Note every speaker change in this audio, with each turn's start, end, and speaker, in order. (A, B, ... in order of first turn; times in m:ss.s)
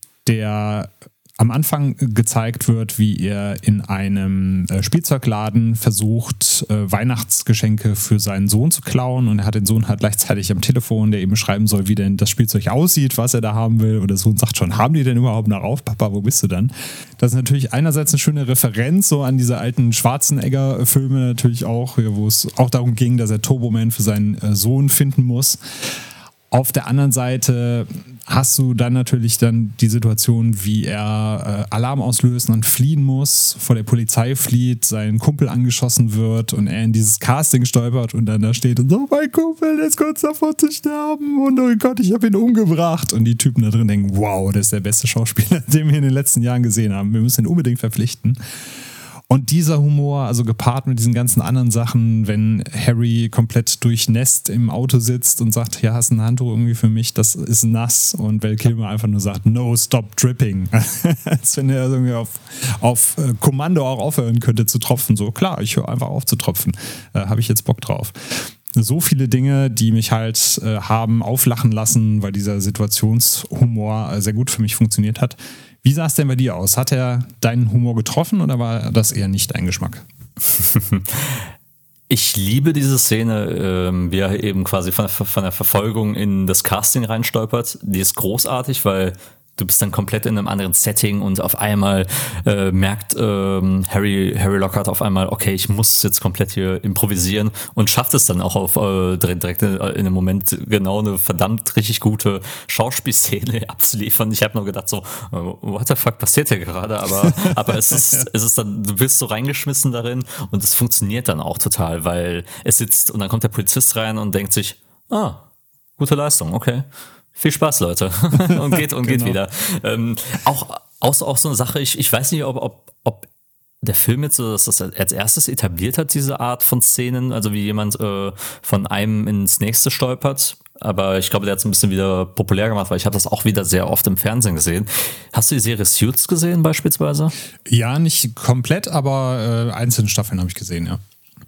0:00.2-0:26.0 A
0:26.5-0:48.4 A
0:49.3-1:20.0 A
1:20.6-1:21.4 B
1:22.1-1:55.4 B
1:47.2-1:48.2 A
1:56.0-2:03.3 B
1:58.5-1:59.4 A
2:03.8-2:17.3 B
2:17.7-2:21.0 A